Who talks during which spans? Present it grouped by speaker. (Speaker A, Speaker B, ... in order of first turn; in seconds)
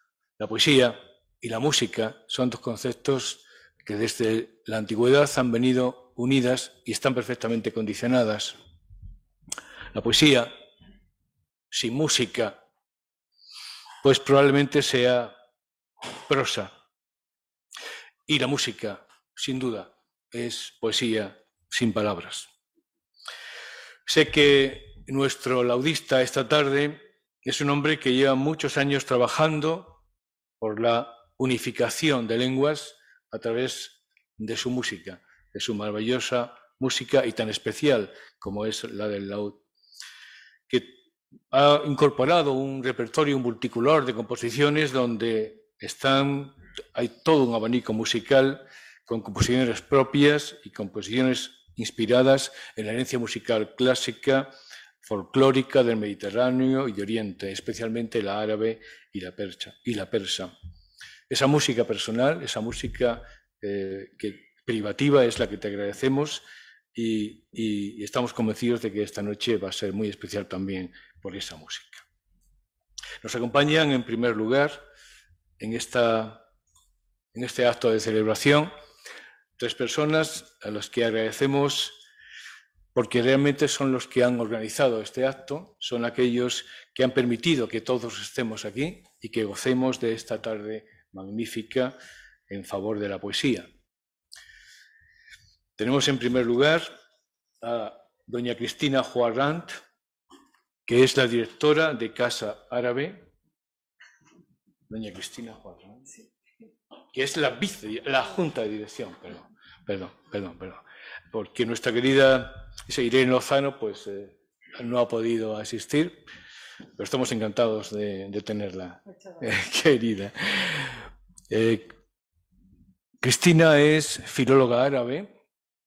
Speaker A: 0.4-8.6, 9.9-10.5, 11.7-12.6, 14.0-15.3, 16.3-16.7, 18.3-22.5, 24.1-30.0, 30.6-39.6, 40.7-41.0, 41.5-54.5, 55.0-60.5, 61.3-72.0, 73.2-74.8, 75.6-76.4, 77.3-78.7, 79.6-82.0, 83.0-92.0, 92.5-93.7, 95.8-96.9, 97.6-99.8, 100.9-103.3, 104.9-106.1, 107.1-116.3, 117.0-121.0, 121.5-121.9, 123.2-125.3